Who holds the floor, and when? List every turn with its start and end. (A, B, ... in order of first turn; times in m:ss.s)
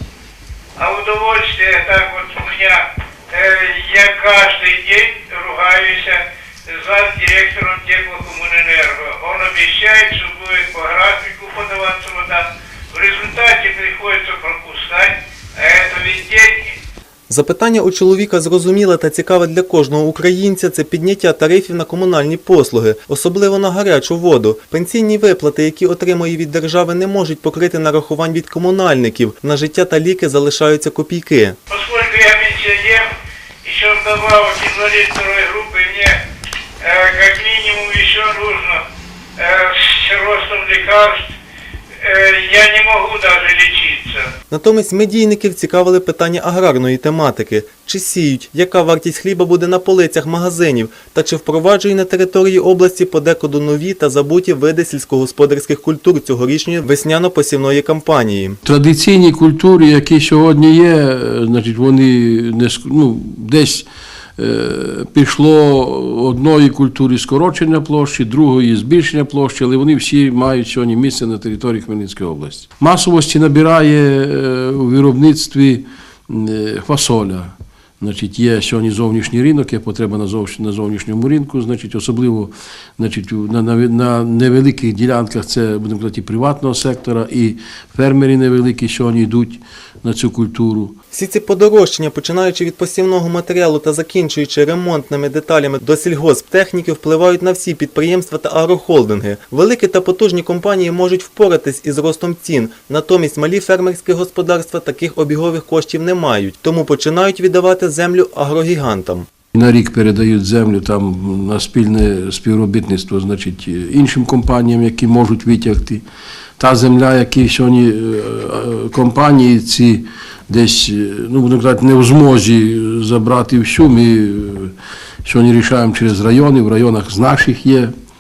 0:00.8-0:16.8 A
0:17.3-0:31.6 B
0:31.7-0:33.1 A
0:33.6-0:36.2 A
0:36.8-0:38.8 A
0:39.4-0:41.3 A
0:42.0-0:44.3 A
0:44.5-0:58.6 B
0:58.6-1:03.8 C
1:04.4-1:31.0 C
1:31.1-1:49.3 B
1:49.5-1:56.0 C
1:56.6-2:04.7 C
2:05.2-2:07.9 C